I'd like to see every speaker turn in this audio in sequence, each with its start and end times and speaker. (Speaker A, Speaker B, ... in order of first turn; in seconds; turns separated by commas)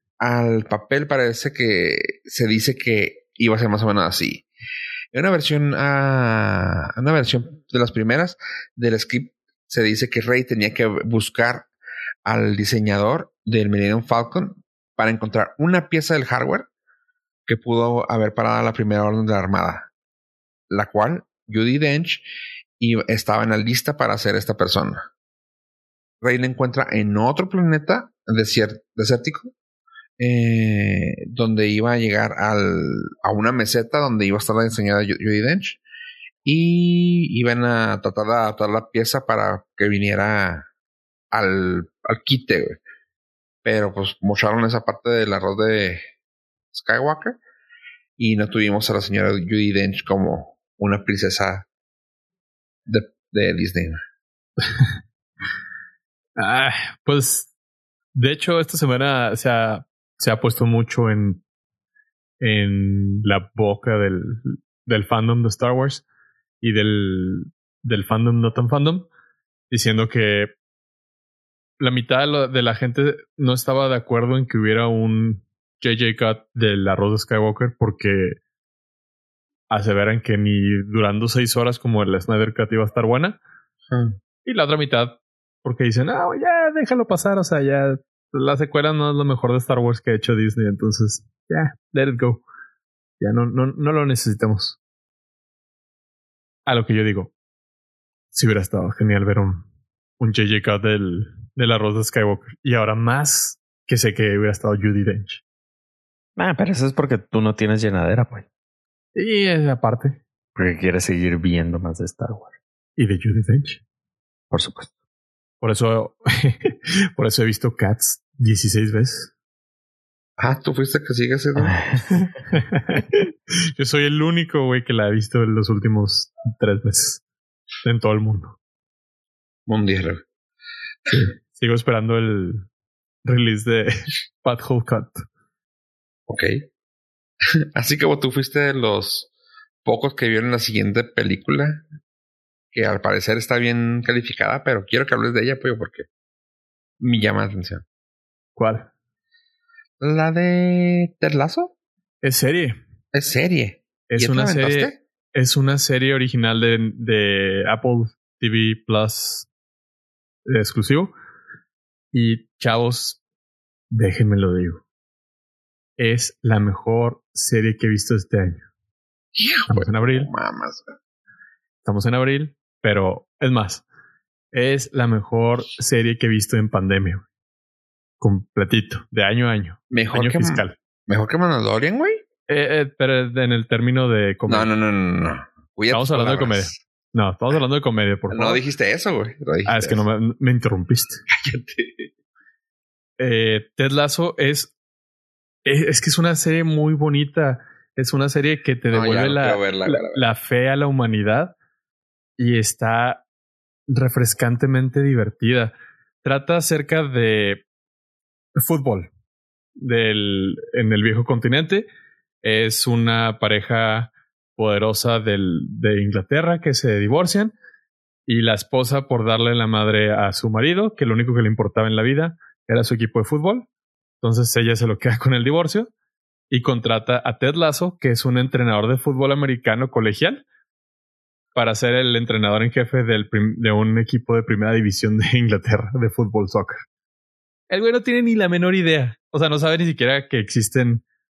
Speaker A: 0.2-4.5, Speaker A: 5.1-11.7, Speaker A: 12.2-16.7, Speaker A: 17.5-19.9, Speaker A: 20.7-22.2, Speaker A: 22.8-25.0, Speaker A: 26.2-29.5, Speaker A: 30.2-35.8, Speaker A: 36.4-40.7, Speaker A: 41.3-42.8, Speaker A: 43.6-46.0, Speaker A: 46.7-47.4, Speaker A: 48.2-51.7, Speaker A: 52.9-54.0, Speaker B: 56.4-57.5, Speaker B: 58.1-61.4, Speaker B: 62.4-66.0, Speaker B: 66.6-69.1, Speaker B: 69.7-70.5, Speaker B: 71.8-78.4, Speaker B: 79.7-83.4, Speaker A: 83.9-84.2, Speaker B: 84.4-92.4, Speaker B: 93.2-94.8, Speaker B: 96.7-97.3, Speaker B: 98.3-99.7, Speaker B: 100.2-105.4, Speaker C: 106.4-108.5, Speaker B: 109.1-110.2, Speaker C: 110.5-112.5, Speaker B: 113.0-113.8, Speaker C: 114.5-114.9, Speaker B: 115.6-119.3, Speaker A: 120.4-122.0, Speaker C: 121.6-122.2, Speaker B: 122.2-127.2, Speaker B: 127.8-128.6, Speaker A: 129.7-130.2, Speaker B: 131.1-132.7, Speaker B: 133.2-133.9, Speaker B: 134.4-135.2, Speaker A: 136.3-136.7, Speaker A: 137.7-139.3, Speaker A: 139.8-141.8, Speaker A: 142.7-146.1, Speaker A: 147.0-147.8, Speaker B: 148.6-148.9, Speaker A: 150.0-151.7, Speaker B: 152.2-152.8, Speaker A: 153.1-155.0, Speaker B: 154.1-159.5, Speaker B: 160.4-161.1, Speaker B: 162.1-163.2, Speaker B: 163.9-164.8, Speaker B: 166.0-168.7, Speaker A: 169.3-170.9, Speaker B: 169.7-170.3, Speaker B: 171.8-173.8, Speaker B: 174.5-177.2, Speaker B: 178.2-180.8, Speaker A: 179.9-182.2, Speaker B: 182.5-184.7, Speaker A: 184.5-186.8, Speaker B: 185.9-188.6, Speaker A: 188.3-190.0, Speaker B: 189.7-191.2, Speaker A: 191.3-192.1, Speaker B: 193.2-194.7, Speaker B: 195.6-201.5, Speaker A: 198.9-200.2, Speaker B: 202.4-203.2, Speaker B: 203.9-207.6, Speaker B: 208.6-209.1, Speaker B: 209.8-211.8, Speaker B: 212.4-217.5, Speaker B: 218.3-223.7, Speaker B: 224.2-225.9, Speaker B: 226.5-230.4, Speaker B: 231.5-236.8, Speaker B: 237.7-241.0